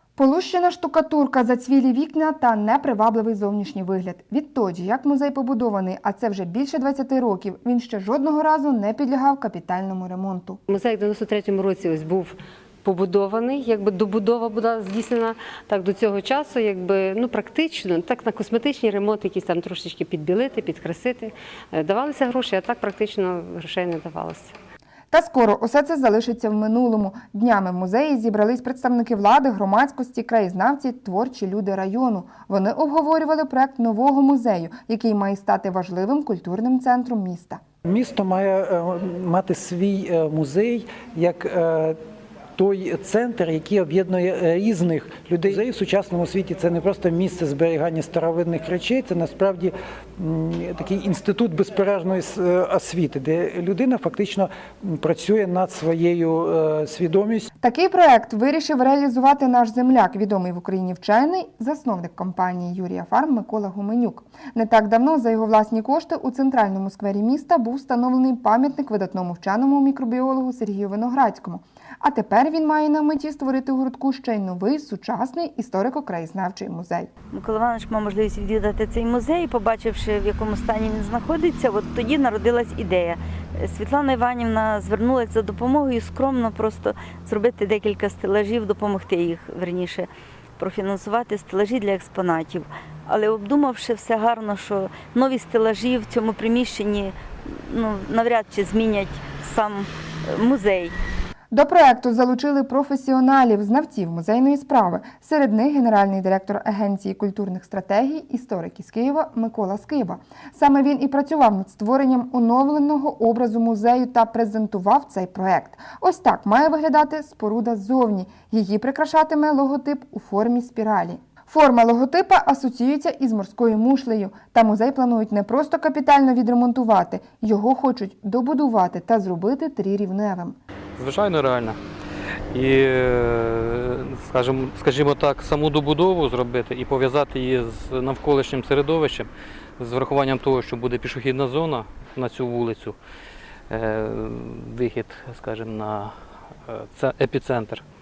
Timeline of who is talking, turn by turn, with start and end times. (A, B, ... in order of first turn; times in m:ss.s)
0:00.2-0:10.6 A
0:10.7-0:24.5 B
0:25.1-0:37.6 A
0:37.8-0:42.0 C
0:42.6-0:57.5 C
0:57.6-1:17.1 A
1:17.3-1:41.0 D
1:41.5-2:10.6 A
2:11.0-2:11.8 E
2:12.5-2:23.0 E
2:23.7-2:26.1 E
2:26.7-2:27.8 E